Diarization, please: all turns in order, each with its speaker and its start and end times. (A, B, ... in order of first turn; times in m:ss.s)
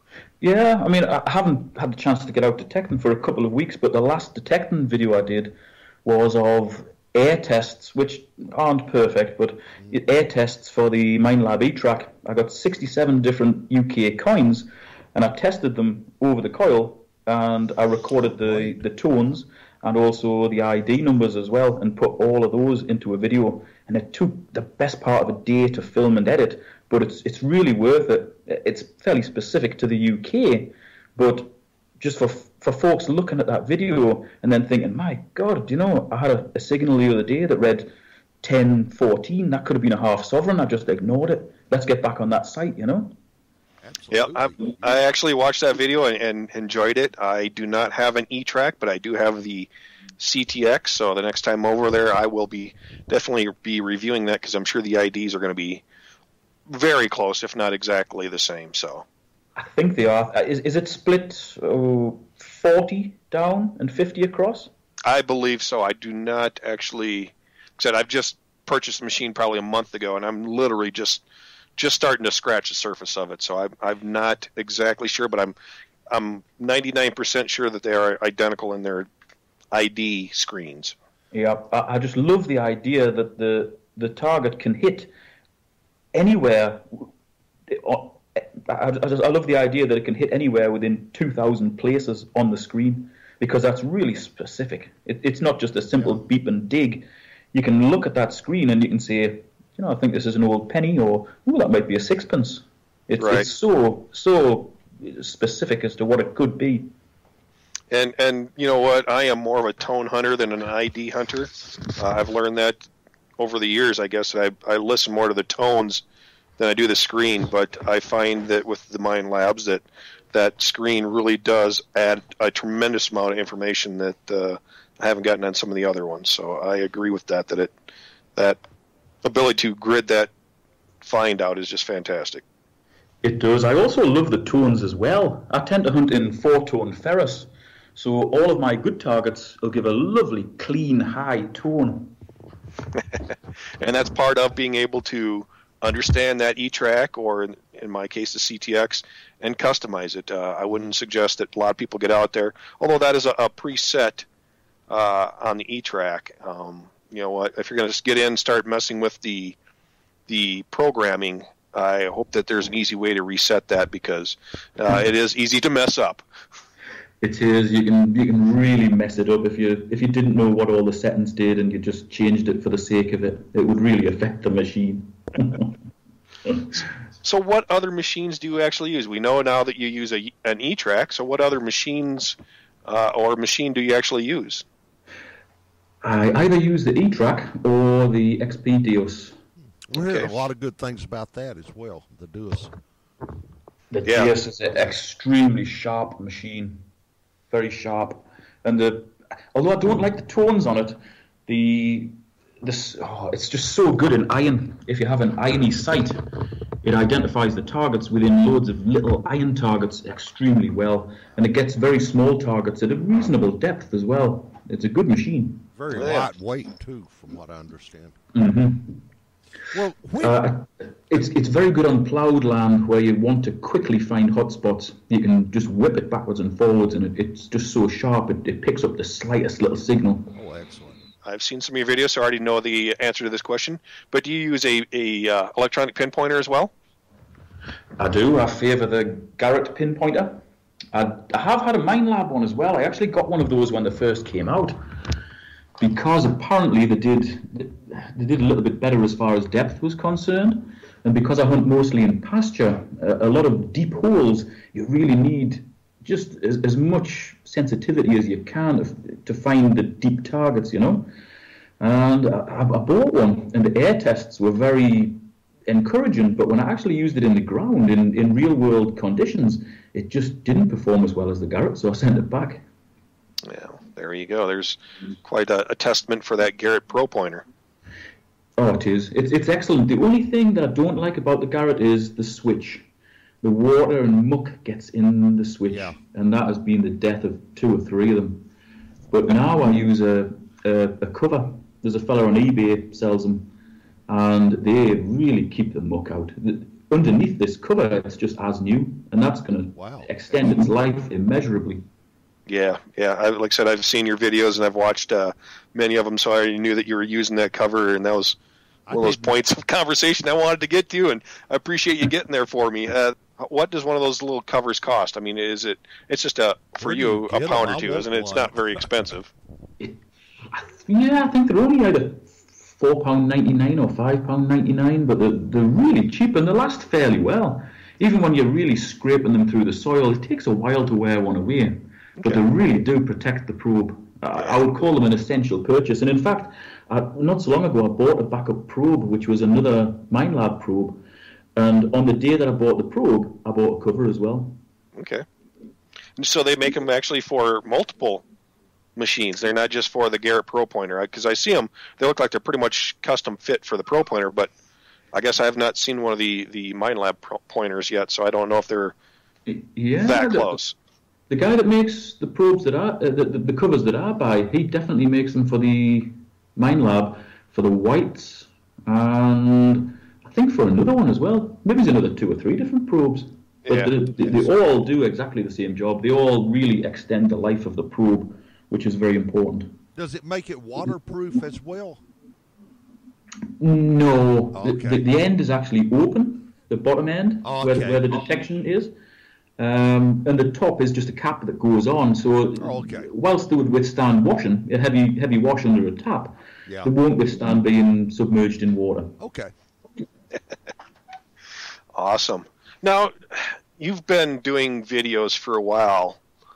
0:00.4-0:43.1 A
0:18.4-0:18.8 B
0:43.8-0:45.0 B
0:44.1-0:55.8 C
0:56.7-0:59.0 C
0:59.6-1:04.7 A
1:05.0-1:11.2 C
1:11.8-1:15.5 C
1:16.1-1:19.1 C
1:19.7-1:20.9 C
1:21.3-1:25.1 A
1:26.1-1:27.1 A
1:27.7-1:46.9 A
1:43.2-1:43.5 C
1:47.9-1:52.8 C
1:53.4-1:56.0 C
1:56.6-2:07.7 C
2:09.2-2:10.3 C
2:11.0-2:12.4 C
2:13.2-2:22.1 A
2:23.8-2:34.2 C
2:34.9-2:39.6 C
2:40.3-2:46.2 C
2:47.2-2:55.7 A
2:57.2-3:04.6 C
3:06.0-3:09.4 A
3:09.8-3:12.7 B
3:09.9-3:10.4 C
3:13.9-3:16.8 A
3:14.0-3:14.4 C
3:17.5-3:26.2 A
3:26.8-3:35.7 A
3:35.7-3:38.2 B
3:35.9-3:36.3 C
3:38.3-3:39.0 A
3:39.7-3:40.4 B
3:40.2-3:50.3 A
3:50.3-3:51.0 B
3:51.2-3:56.7 C
3:58.0-4:00.4 A
4:00.9-4:04.8 A
4:05.8-4:21.1 A
4:21.8-4:32.6 A
4:33.4-4:37.4 C
4:38.6-4:42.8 A
4:43.4-4:48.5 A
4:45.7-4:46.0 B
4:49.1-4:53.5 A
4:54.1-5:01.8 A
4:59.8-5:00.6 B
5:02.5-5:08.4 C
5:08.9-5:09.3 B
5:08.9-5:19.3 C
5:16.8-5:18.9 B
5:19.8-5:41.0 A
5:41.6-5:44.6 A
5:45.0-5:45.2 C
5:46.2-5:48.2 C
5:49.0-5:54.5 C
5:55.1-5:58.9 C
5:59.4-6:00.6 A
6:00.0-6:00.7 C
6:01.3-6:19.8 A
6:13.6-6:14.0 C
6:20.0-6:22.0 B
6:23.6-6:28.9 A
6:24.5-6:25.0 B
6:27.4-6:28.2 B
6:29.6-6:39.1 A
6:32.6-6:33.1 B
6:36.7-6:36.9 B
6:39.2-6:39.5 B
6:41.9-6:46.2 C